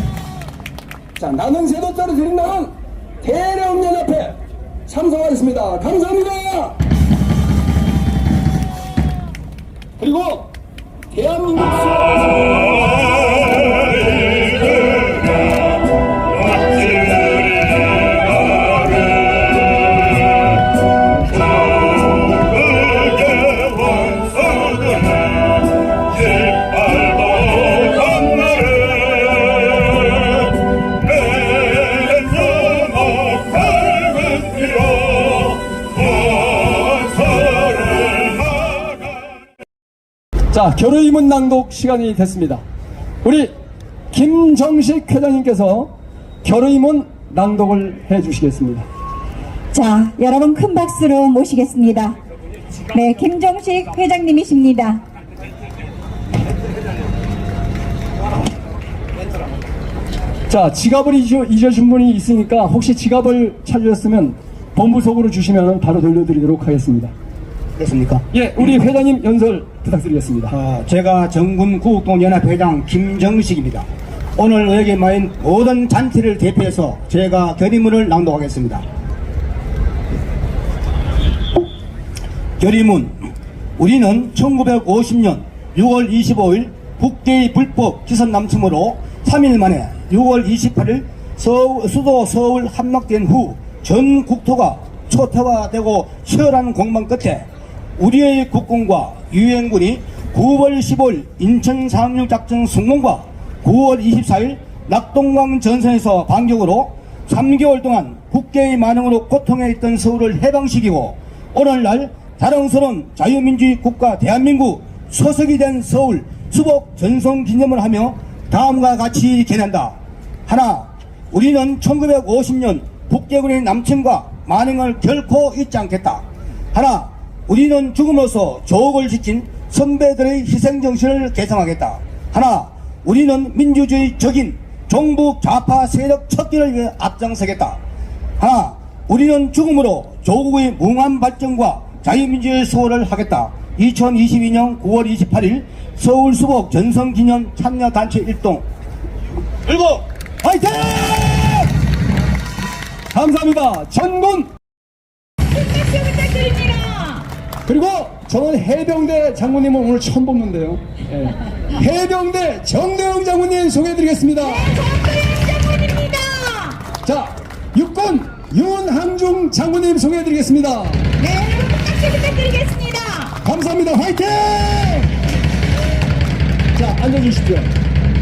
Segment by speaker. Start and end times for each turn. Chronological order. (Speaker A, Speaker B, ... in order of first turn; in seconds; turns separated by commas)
Speaker A: 1.1-6.8, Speaker A: 10.0-10.5, Speaker A: 11.1-12.8, Speaker A: 34.4-34.7, Speaker A: 40.5-42.6, Speaker A: 43.2-43.5, Speaker A: 44.1-45.9, Speaker A: 46.4-48.9, Speaker B: 49.7-52.1, Speaker B: 52.9-55.0, Speaker A: 60.5-67.1, Speaker C: 67.8-68.2, Speaker A: 68.3-70.5, Speaker C: 70.5-78.8, Speaker C: 82.6-97.5, Speaker C: 98.0-137.8, Speaker C: 138.4-148.6, Speaker C: 149.7-150.1, Speaker A: 150.4-151.7, Speaker A: 153.1-154.5, Speaker B: 155.5-157.3, Speaker A: 157.7-164.7, Speaker B: 164.5-166.8, Speaker A: 167.0-171.1, Speaker B: 171.2-173.3, Speaker A: 173.4-175.1, Speaker A: 176.7-177.7